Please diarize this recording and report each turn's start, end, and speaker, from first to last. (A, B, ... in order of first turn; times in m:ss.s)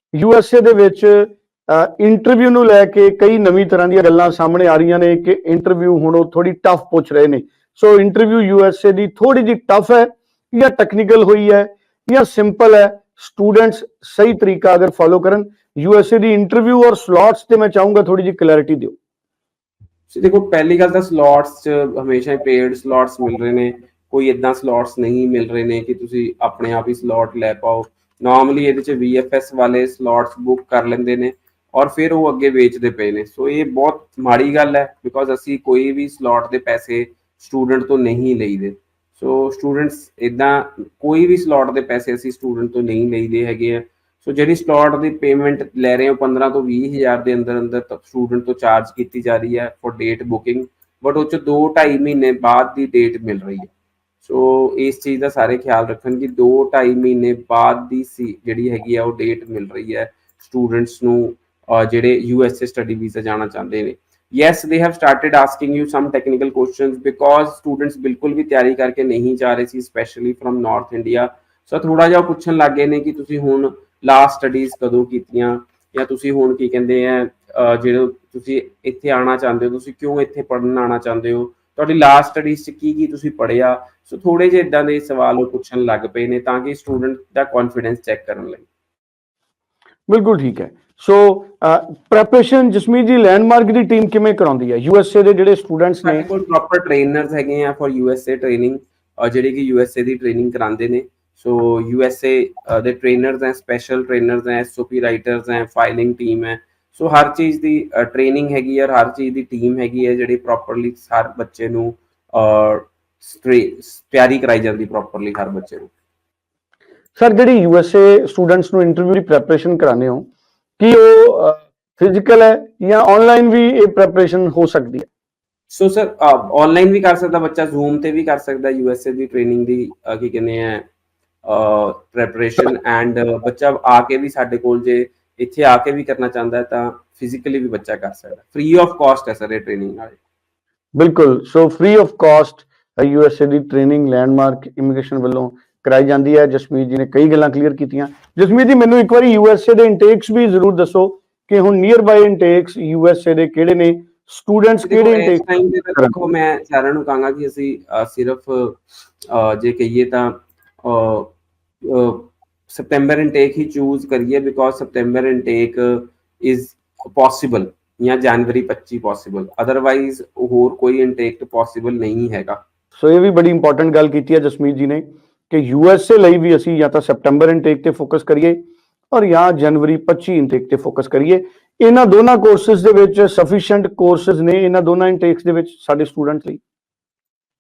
0:00.1-0:19.0 A
0:20.1-0:53.7 B
0:54.2-1:28.6 B
1:30.1-1:36.3 A
1:36.0-1:55.9 B
1:57.2-2:00.3 A
2:00.8-2:05.1 A
2:05.7-2:10.9 B
2:11.4-2:20.2 B
2:21.0-2:36.2 A
2:34.8-2:41.3 B
2:41.8-2:52.6 B
2:53.0-2:58.6 A
2:59.1-3:06.6 A